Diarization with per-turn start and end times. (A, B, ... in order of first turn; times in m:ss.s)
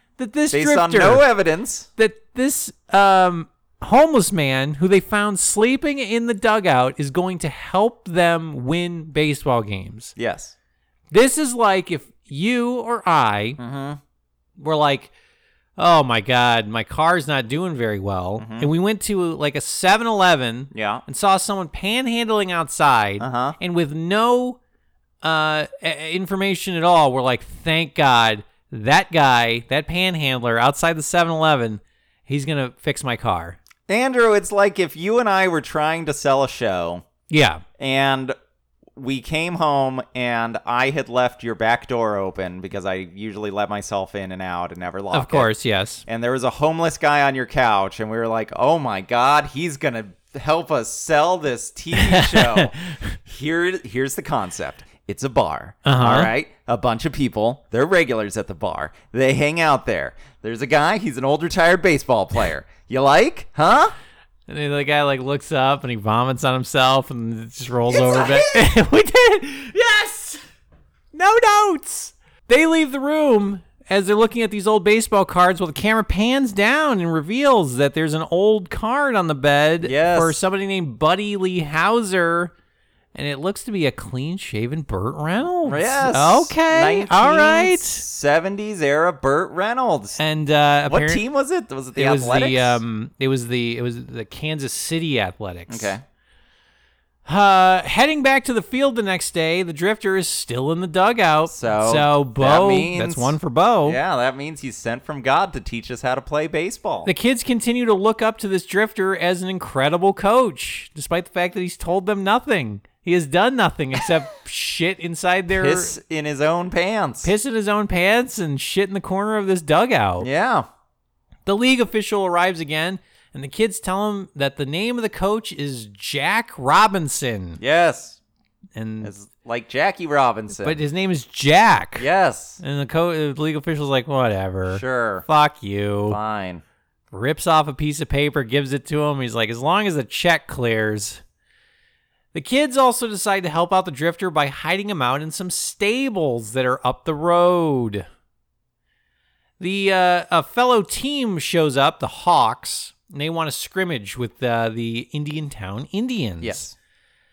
0:00.2-0:01.3 A
0:00.5-0:01.9 B
0:02.0-0:10.1 A
0:10.2-0:10.5 B
0:11.1-0:13.6 A
0:13.6-0:14.0 B
0:14.6-0:15.1 A
0:15.8-0:24.6 A
0:18.4-0:18.7 B
0:20.7-0:21.0 B
0:23.2-0:23.6 B
0:25.2-0:33.6 A
0:33.9-0:37.0 B
0:37.3-0:37.6 A
0:37.8-0:38.4 B
0:39.0-0:45.5 B
0:45.1-0:46.0 A
0:46.1-1:03.9 B
0:51.9-0:53.1 A
0:55.8-0:56.3 A
1:04.5-1:10.4 A
1:07.9-1:08.6 B
1:11.1-1:22.5 A
1:19.8-1:20.4 B
1:23.1-1:28.0 A
1:25.6-1:30.2 B
1:30.2-1:31.2 A
1:30.9-1:32.8 B
1:32.0-1:35.9 A
1:35.7-1:36.0 B
1:37.3-1:44.0 A
1:41.5-1:47.1 B
1:47.0-1:56.0 A
1:55.6-1:57.3 B
1:57.2-2:00.3 A
2:00.2-2:00.7 B
2:01.5-2:07.6 A
2:07.6-2:08.2 B
2:08.8-2:09.1 A
2:09.0-2:10.8 B
2:10.6-2:12.1 A
2:12.0-2:12.6 B
2:12.6-2:16.2 A
2:14.7-2:15.2 B
2:16.1-2:16.6 B
2:17.1-2:21.2 A
2:22.3-2:28.1 A
2:29.6-2:36.7 A
2:36.4-2:36.7 B